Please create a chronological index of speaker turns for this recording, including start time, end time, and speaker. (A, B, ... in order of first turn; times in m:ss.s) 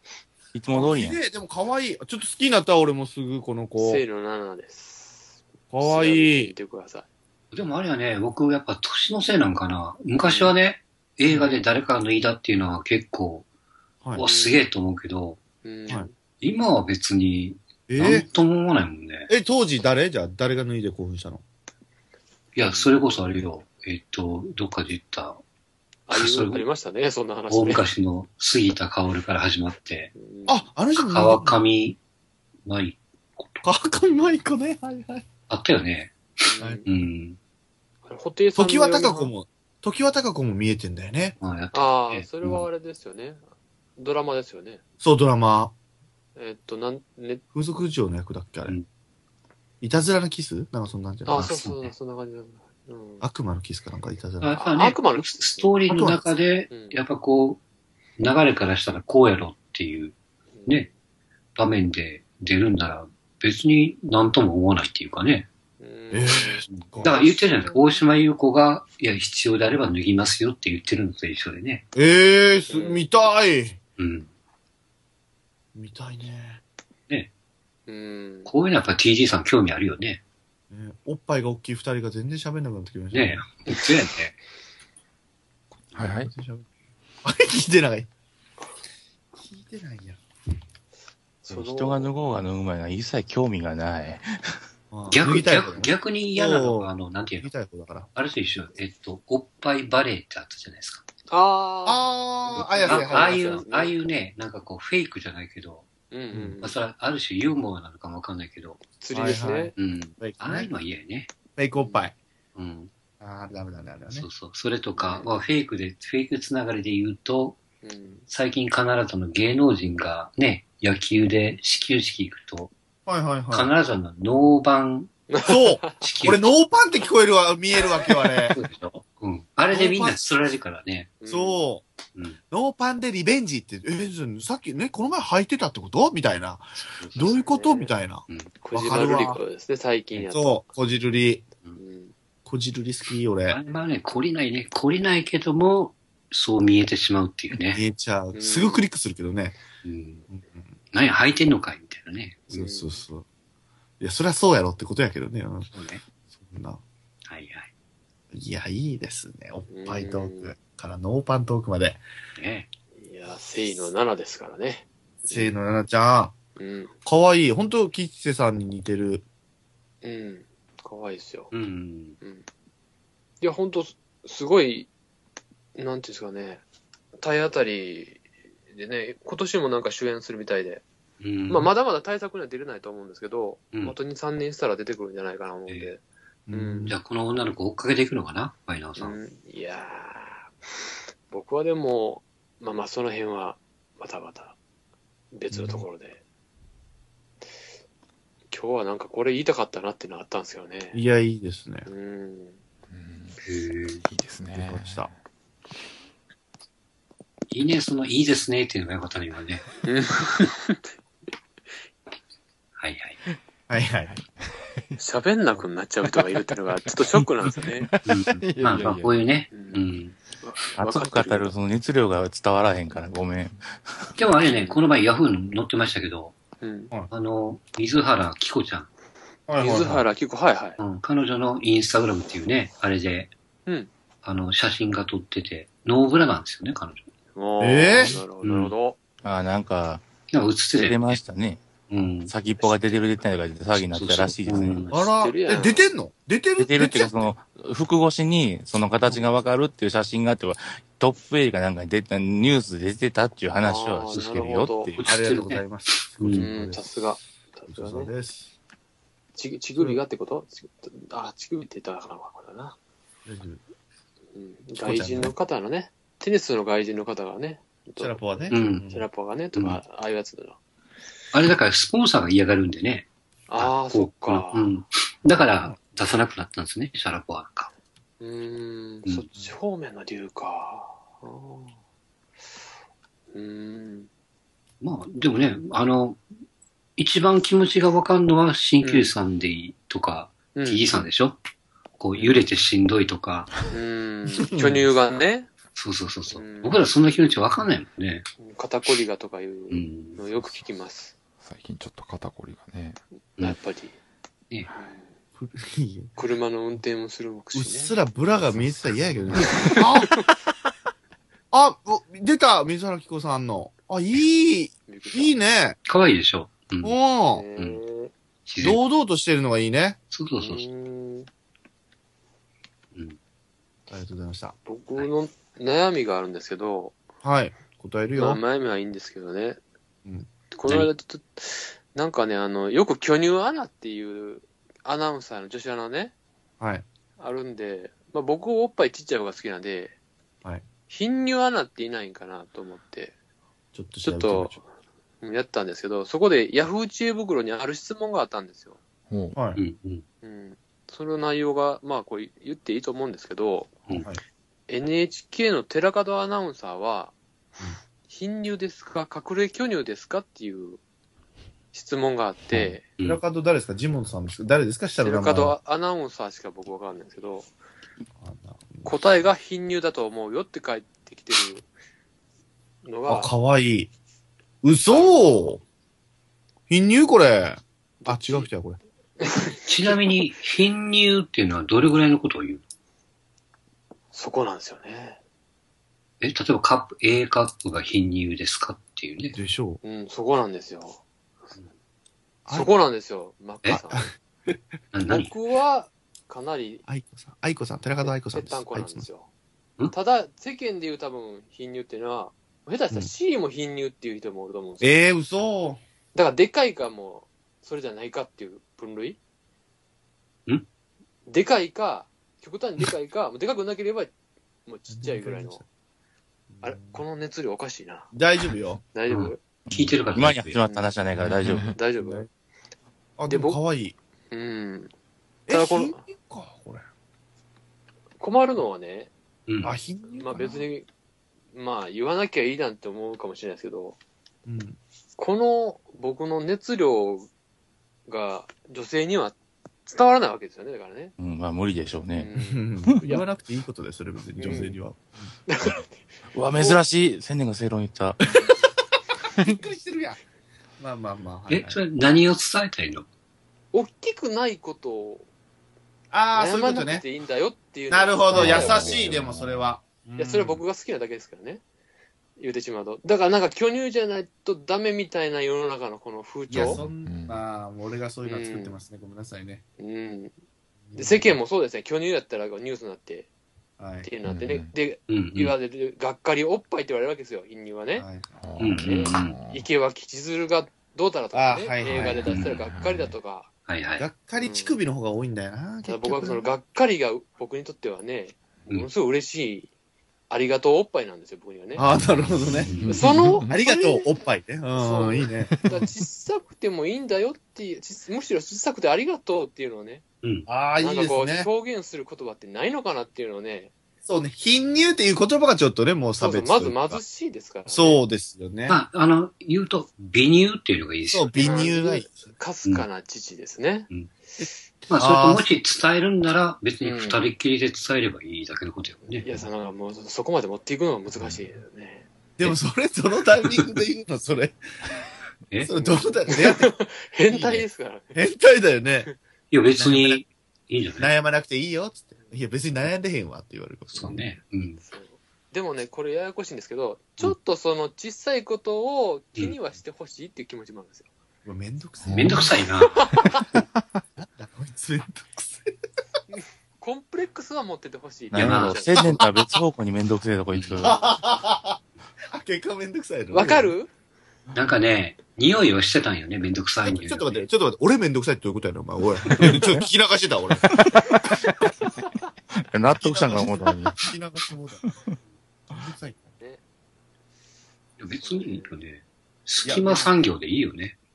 0:00.5-0:01.2 A
0:00.7-0:04.0 B
0:03.8-0:07.1 C
0:05.7-0:06.5 B
0:07.5-0:13.5 D
0:10.2-0:10.6 C
0:11.3-0:11.5 B
0:14.2-0:15.4 D
0:14.2-0:14.6 C
0:15.6-0:16.1 C
0:16.4-0:19.3 D
0:17.9-0:18.3 B
0:19.3-0:21.4 B
0:22.6-0:25.4 D
0:22.6-0:23.0 C
0:26.1-0:27.9 C
0:26.1-0:26.7 D
0:27.5-0:30.1 D
0:30.2-0:30.7 C
0:30.5-0:31.6 B
0:31.0-0:32.0 D
0:32.7-0:33.6 D
0:33.6-0:35.3 B
0:35.5-0:36.2 D
0:36.4-0:36.9 C
0:36.8-0:37.4 D
0:38.1-0:39.3 C
0:38.6-0:41.4 B
0:41.4-0:42.7 D
0:41.7-0:43.4 C
0:44.0-0:44.8 C
0:45.0-0:45.7 B
0:46.4-0:47.4 C
0:47.5-0:48.8 B
0:49.8-0:51.6 B
0:51.3-0:53.2 C
0:51.3-0:51.9 D
0:53.2-0:54.6 B
0:54.4-0:57.6 D
0:54.6-0:55.8 C
0:55.9-0:56.2 B
0:56.7-0:57.0 C
0:58.2-1:00.9 D
1:00.6-1:00.9 C
1:01.6-1:05.5 D
1:05.8-1:08.0 C
1:06.1-1:07.2 B
1:06.8-1:11.8 D
1:12.0-1:13.8 B
1:12.7-1:13.1 C
1:14.0-1:14.3 D
1:15.7-1:16.6 B
1:17.9-1:18.5 C
1:18.5-1:20.2 D
1:20.7-1:23.4 B
1:23.1-1:24.4 D
1:26.0-1:26.3 E
1:26.0-1:26.7 B
1:27.2-1:28.1 B
1:29.4-1:30.2 B
1:31.4-1:32.2 C
1:31.5-1:34.3 A
1:34.9-1:36.9 B
1:35.1-1:37.5 D
1:37.4-1:38.1 B
1:38.2-1:41.0 D
1:41.3-1:44.0 C
1:41.9-1:43.6 B
1:42.8-1:45.9 D
1:46.1-1:46.8 C
1:46.3-1:46.6 B
1:46.6-1:48.8 D
1:49.0-1:49.7 C
1:49.1-1:50.7 B
1:49.8-1:51.3 D
1:51.6-1:52.2 B
1:51.8-1:52.1 C
1:52.6-1:52.9 D
1:53.2-1:54.3 B
1:54.1-1:57.6 D
1:55.0-1:55.3 C
1:57.8-1:58.3 C
1:58.3-2:02.7 D
2:03.1-2:03.7 B
2:03.5-2:05.2 D
2:05.3-2:06.0 C
2:05.4-2:08.6 B
2:06.0-2:06.5 D
2:08.5-2:11.1 D
2:09.7-2:10.2 B
2:11.2-2:11.6 C
2:11.3-2:11.9 B
2:12.5-2:19.4 B
2:16.8-2:17.4 D
2:17.4-2:17.9 C
2:18.6-2:20.6 C
2:20.2-2:21.4 B
2:21.8-2:22.1 C
2:22.5-2:23.6 B
2:23.5-2:27.8 D
2:27.5-2:29.6 B
2:28.3-2:28.8 C
2:29.8-2:30.3 D
2:30.3-2:30.7 B
2:30.9-2:32.6 D
2:32.5-2:33.2 B
2:32.5-2:33.0 C
2:34.0-2:35.7 B
2:35.7-2:36.0 D
2:36.3-2:36.8 B
2:37.3-2:37.7 D
2:38.3-2:42.0 B
2:39.7-2:40.5 C
2:42.4-2:42.7 D
2:43.0-2:45.5 C
2:45.3-2:46.3 B
2:46.6-2:46.9 C
2:47.0-2:49.2 B
2:50.0-2:51.5 C
2:51.5-2:52.2 D
2:53.4-2:54.9 C
2:55.8-2:56.6 C
2:57.2-3:00.8 C
3:01.2-3:01.7 D
3:01.5-3:06.0 C
3:05.7-3:05.9 D
3:06.5-3:07.0 B
3:06.5-3:07.0 C
3:06.9-3:09.2 D
3:09.0-3:10.5 C
3:11.3-3:14.6 C
3:15.3-3:16.2 C
3:15.5-3:15.8 B
3:18.5-3:21.0 C
3:20.9-3:21.9 B
3:21.9-3:22.6 C
3:22.9-3:23.4 E
3:23.4-3:24.0 D
3:24.0-3:25.2 E
3:24.5-3:25.1 B
3:27.5-3:29.6 D
3:29.8-3:30.9 C
3:32.8-3:33.2 D
3:33.7-3:34.1 B
3:34.0-3:35.0 E
3:35.0-3:37.9 C
3:37.4-3:39.2 E
3:38.1-3:40.2 D
3:39.5-3:39.8 C
3:40.4-3:41.5 C
3:40.8-3:44.1 A
3:44.2-3:46.4 D
3:44.4-3:44.8 C
3:46.6-3:46.9 C
3:47.1-3:48.9 D
3:49.5-3:50.0 B
3:49.6-3:50.8 C
3:50.8-3:53.3 D
3:54.2-3:57.1 D
3:57.4-3:59.0 C
3:57.6-3:58.2 B
3:58.4-3:58.7 D
3:59.2-4:00.1 A
4:00.3-4:01.2 D
4:00.7-4:01.6 A
4:01.9-4:02.3 D
4:02.3-4:04.8 A
4:03.8-4:05.1 D
4:04.9-4:07.3 B
4:05.2-4:05.9 C
4:06.6-4:15.0 A
4:13.6-4:14.9 C
4:15.0-4:16.5 D
4:15.0-4:18.5 B
4:16.4-4:18.1 C
4:19.4-4:22.8 C
4:23.3-4:23.6 B
4:24.4-4:30.6 C
4:24.8-4:25.4 B
4:28.0-4:29.1 B
4:28.5-4:28.9 D
4:31.3-4:37.7 D
4:33.5-4:34.7 C
4:38.2-4:41.7 C
4:43.3-4:44.1 C
4:44.8-4:46.2 D
4:47.0-4:51.4 D
4:48.8-4:49.1 C
4:50.6-4:50.8 C
4:52.0-4:53.5 D
4:52.2-4:52.4 C
4:53.7-4:55.5 C
4:54.3-4:54.9 B
4:55.8-4:58.3 D
4:56.3-4:56.8 C
4:58.4-5:01.1 C
4:59.7-5:00.2 D
5:01.4-5:03.0 E
5:03.4-5:04.0 C
5:04.7-5:05.0 C
5:05.4-5:06.1 B
5:06.2-5:08.0 C
5:07.5-5:10.2 B
5:08.6-5:09.7 E
5:09.6-5:10.1 C
5:11.5-5:15.8 B
5:14.9-5:15.4 C
5:15.9-5:17.0 D
5:16.8-5:17.5 B
5:17.3-5:18.1 C
5:18.5-5:18.8 D
5:18.6-5:20.0 B
5:20.1-5:20.6 D
5:20.4-5:21.3 C
5:23.9-5:24.6 B
5:24.7-5:27.0 C
5:27.2-5:28.4 B
5:28.2-5:29.6 C
5:30.5-5:36.1 C
5:36.6-5:36.8 B
5:37.2-5:40.0 C
5:40.9-5:43.2 C
5:43.7-5:44.6 B
5:44.0-5:44.6 C
5:45.2-5:48.8 C
5:49.1-5:49.4 E
5:49.4-5:49.6 B
5:49.6-5:50.0 D
5:50.2-5:53.8 C
5:54.7-5:57.1 C
5:58.1-6:00.8 C
6:01.7-6:02.8 C
6:02.6-6:03.2 D
6:03.0-6:05.6 B
6:05.0-6:07.5 C
6:08.2-6:09.3 B
6:08.8-6:11.7 C
6:12.8-6:13.3 C
6:13.1-6:13.9 B
6:14.6-6:15.6 B
6:14.9-6:15.3 C
6:16.7-6:18.8 B
6:18.0-6:18.5 C
6:19.2-6:20.2 C
6:19.7-6:22.6 D
6:24.1-6:25.2 C
6:26.2-6:29.4 D
6:29.3-6:29.8 B
6:29.8-6:31.0 C
6:32.5-6:32.7 B
6:32.5-6:34.1 C
6:33.7-6:34.6 B
6:34.9-6:35.3 D
6:35.1-6:36.8 C
6:36.9-6:39.0 B
6:38.0-6:39.3 C
6:39.9-6:44.9 C
6:44.8-6:45.8 B
6:46.2-6:49.2 C
6:51.3-6:54.1 C
6:54.7-6:55.6 C
6:54.9-6:55.6 B
6:56.5-6:57.0 B
6:56.6-6:58.1 C
6:58.1-6:58.8 B
6:58.9-6:59.4 C
6:59.1-7:00.6 D
6:59.7-7:01.7 A
7:00.6-7:00.9 C
7:01.2-7:01.7 E
7:01.7-7:02.3 C
7:02.0-7:02.3 B
7:03.2-7:04.0 B
7:03.3-7:03.6 C
7:04.3-7:04.9 C
7:05.5-7:06.9 B
7:05.5-7:06.0 C
7:08.2-7:09.1 C
7:09.5-7:09.8 D
7:09.6-7:10.6 B
7:10.1-7:10.9 C
7:11.5-7:14.0 C
7:14.5-7:14.8 B
7:15.2-7:17.3 C
7:18.1-7:21.1 C
7:21.2-7:22.3 A
7:22.2-7:23.2 C
7:22.4-7:25.3 B
7:24.4-7:24.8 C
7:25.5-7:26.0 C
7:26.3-7:28.2 A
7:29.4-7:30.2 B
7:30.8-7:31.8 B
7:31.5-7:33.1 D
7:33.7-7:35.3 C
7:36.1-7:37.0 B
7:36.3-7:39.1 C
7:37.9-7:40.6 B
7:38.4-7:39.7 E
7:40.2-7:41.6 C
7:42.4-7:46.8 C
7:46.5-7:49.6 B
7:46.5-7:47.4 E
7:48.2-7:48.8 C
7:49.8-7:50.3 C
7:50.9-7:51.3 B
7:50.9-7:53.3 C
7:53.8-7:54.1 B
7:54.0-7:58.1 C
7:54.2-7:54.7 E
7:55.1-7:55.6 D
7:58.0-7:58.3 B
7:58.4-7:59.6 E
7:58.6-7:59.4 D
7:58.7-8:03.5 C
8:01.3-8:02.3 B
8:02.3-8:02.6 D
8:02.5-8:03.2 E
8:03.7-8:04.0 D
8:04.0-8:06.5 B
8:04.4-8:04.8 C
8:05.9-8:09.7 C
8:10.3-8:11.8 C
8:11.8-8:12.9 B
8:12.7-8:13.1 D
8:12.7-8:13.5 E
8:12.9-8:14.0 C
8:13.5-8:15.7 B
8:14.7-8:20.0 C
8:20.2-8:20.5 D
8:20.5-8:21.5 B
8:20.8-8:23.7 C
8:24.0-8:27.0 B
8:26.2-8:28.0 C
8:27.7-8:28.8 B
8:28.7-8:31.7 D
8:31.1-8:32.3 B
8:31.4-8:33.9 C
8:34.4-8:35.5 B
8:34.9-8:39.2 D
8:36.8-8:37.2 C
8:39.2-8:42.1 C
8:42.4-8:44.6 B
8:45.6-8:46.7 B
8:45.7-8:48.2 C
8:47.3-8:49.1 B
8:49.5-8:51.1 D
8:49.8-8:50.2 B
8:51.0-8:54.2 B
8:54.0-8:54.8 D
8:54.8-9:01.1 C
9:01.4-9:02.6 B
9:02.1-9:03.0 D
9:02.1-9:02.4 E
9:03.0-9:03.4 C
9:04.2-9:05.8 B
9:06.8-9:09.0 C
9:08.3-9:11.0 A
9:08.3-9:08.8 D
9:09.0-9:09.6 B
9:10.5-9:10.9 D
9:10.8-9:11.8 B
9:12.3-9:13.7 B
9:13.3-9:13.9 C
9:14.5-9:17.4 D
9:16.8-9:20.8 B
9:19.3-9:19.6 D
9:19.4-9:19.9 A
9:20.7-9:21.6 A
9:22.6-9:24.0 A
9:22.9-9:25.0 B
9:25.7-9:26.4 B
9:28.0-9:31.0 D
9:28.1-9:28.7 C
9:29.6-9:30.0 B